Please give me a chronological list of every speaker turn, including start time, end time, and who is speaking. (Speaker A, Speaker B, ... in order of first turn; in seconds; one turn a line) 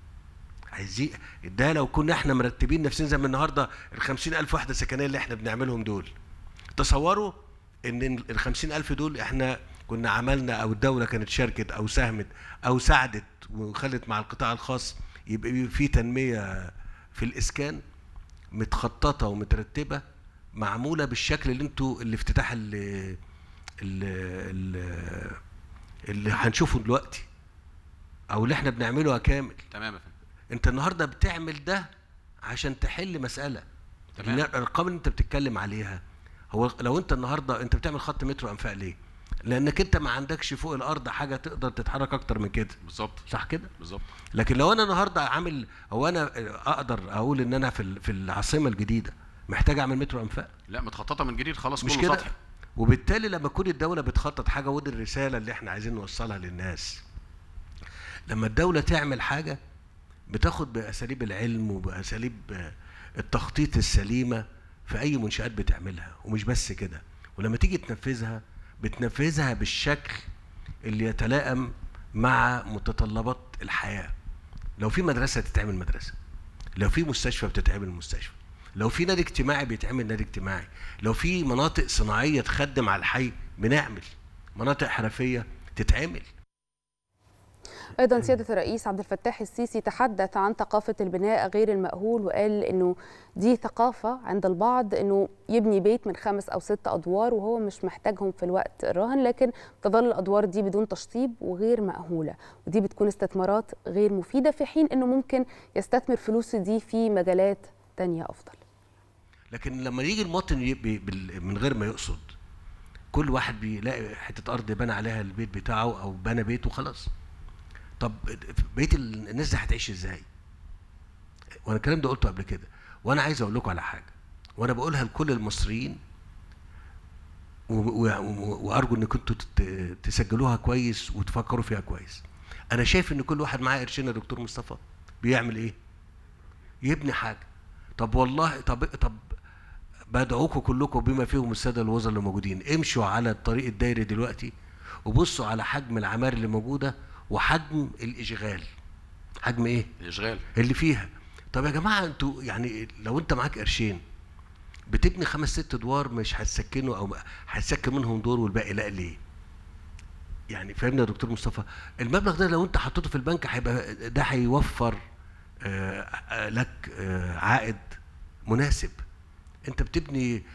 Speaker A: 0.7-6.1
Speaker A: 6.8-7.3
Speaker A: 7.9-17.8
Speaker A: 18.5-20.0
Speaker A: 20.6-23.2
Speaker A: 23.8-25.4
Speaker A: 26.1-27.2
Speaker A: 28.3-29.6
Speaker B: 29.7-30.1
Speaker A: 30.5-31.9
Speaker A: 32.5-33.6
Speaker B: 34.2-34.4
Speaker A: 34.2-36.0
Speaker A: 36.5-42.8
Speaker B: 42.8-43.2
Speaker A: 43.3-43.7
Speaker B: 43.8-44.0
Speaker A: 44.3-50.5
Speaker B: 50.7-52.3
Speaker A: 51.8-57.0
Speaker A: 58.3-59.6
Speaker A: 60.3-62.5
Speaker A: 63.2-70.2
Speaker A: 70.9-74.1
Speaker A: 74.8-76.1
Speaker A: 76.8-86.3
Speaker C: 88.0-108.6
Speaker A: 109.5-112.3
Speaker A: 113.1-117.1
Speaker A: 118.0-120.2
Speaker A: 121.7-126.0
Speaker A: 127.7-135.8
Speaker A: 136.8-137.4
Speaker A: 138.0-139.2
Speaker A: 140.1-144.5
Speaker A: 145.1-148.7
Speaker A: 149.4-149.9
Speaker B: 150.0-150.4
Speaker A: 150.5-154.0
Speaker A: 154.9-159.2
Speaker A: 160.5-165.0
Speaker A: 165.7-167.9
Speaker A: 168.5-169.0
Speaker A: 169.7-170.3